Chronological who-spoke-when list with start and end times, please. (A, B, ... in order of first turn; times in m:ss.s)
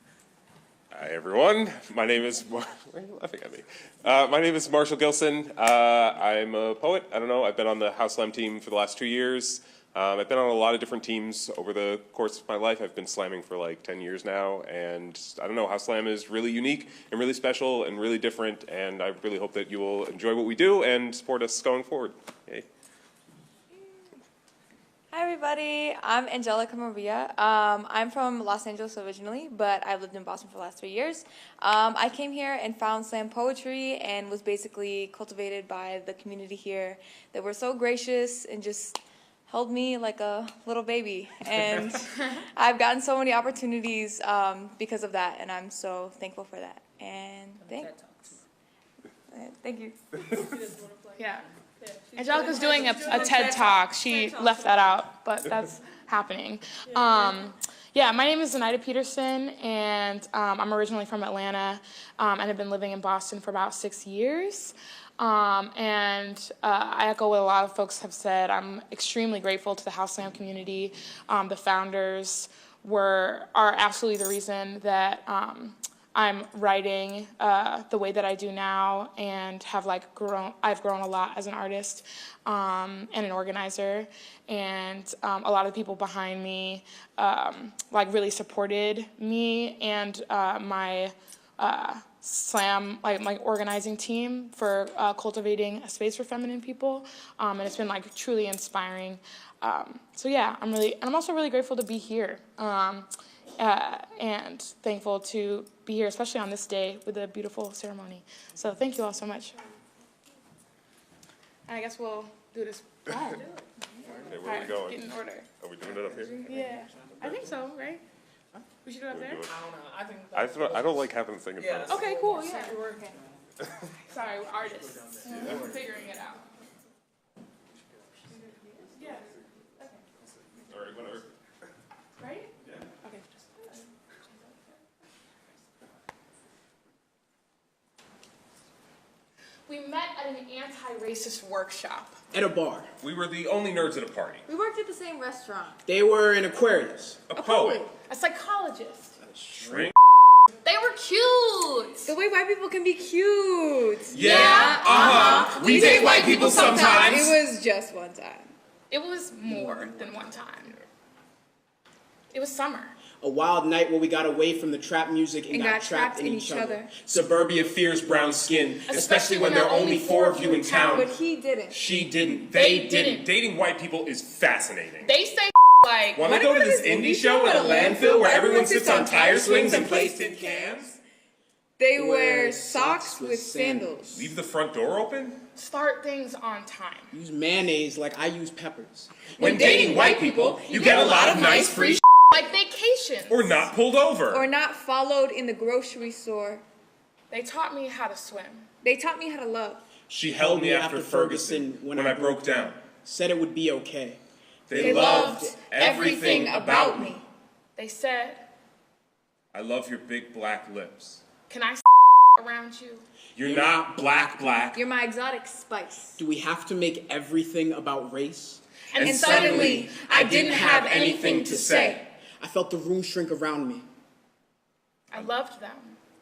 0:00.9-0:22.7 A
0:25.1-0:48.0 B
0:49.3-0:50.5 B
0:50.4-0:51.2 C
0:51.2-0:51.5 D
0:51.8-0:54.8 C
0:52.1-1:49.8 D
0:56.9-0:57.4 C
1:51.7-1:53.5 D
1:54.0-1:54.2 B
1:54.2-1:56.6 A
1:54.4-1:55.5 D
1:56.2-1:56.8 B
1:56.5-1:58.0 D
1:58.8-1:59.5 D
1:59.1-1:59.6 A
1:59.7-2:00.6 C
2:00.3-2:02.0 A
2:01.8-2:03.1 C
2:01.9-2:03.0 D
2:02.4-2:03.1 B
2:03.9-2:06.5 D
2:08.3-2:10.0 D
2:10.6-2:11.3 A
2:12.2-2:12.5 D
2:13.0-2:14.5 D
2:19.7-2:22.2 D
2:22.3-2:22.9 E
2:23.0-2:24.5 A
2:24.5-2:25.8 B
2:25.9-2:27.2 E
2:27.3-2:27.8 A
2:27.4-2:27.9 B
2:28.1-2:29.2 D
2:29.2-2:29.9 E
2:29.6-2:29.9 A
2:30.6-2:32.1 D
2:32.0-2:38.5 B
2:34.1-2:37.3 A
2:34.2-2:37.4 D
2:38.9-2:40.8 D
2:39.5-2:40.2 E
2:42.3-2:43.0 D
2:43.2-2:47.0 E
2:45.5-2:46.9 B
2:47.1-2:51.1 A
2:48.9-2:51.2 D
2:50.9-2:51.8 B
2:51.7-2:55.1 A
2:52.5-2:53.3 D
2:55.0-2:56.3 D
2:56.1-3:00.9 A
2:56.3-3:01.0 B
2:59.3-3:00.0 E
3:01.8-3:04.3 B
3:02.0-3:04.0 E
3:04.1-3:05.4 A
3:05.6-3:07.1 D
3:07.1-3:09.7 E
3:09.4-3:12.0 A
3:09.4-3:12.0 B
3:10.8-3:13.7 D
3:13.3-3:14.5 A
3:14.3-3:16.6 B
3:17.3-3:18.7 D
3:18.8-3:19.8 B
3:20.1-3:22.8 A
3:20.3-3:24.2 E
3:24.7-3:27.2 A
3:24.7-3:25.6 E
3:24.8-3:27.2 B
3:24.8-3:26.5 D
3:27.8-3:28.5 D
3:29.5-3:31.2 A
3:31.5-3:33.1 D
3:33.4-3:34.8 A
3:34.7-3:36.2 B
3:36.2-3:38.6 E
3:38.9-3:40.8 D
3:39.0-3:42.0 A
3:39.0-3:42.0 B
3:40.4-3:41.4 E
3:42.4-3:43.9 E
3:45.1-3:46.0 D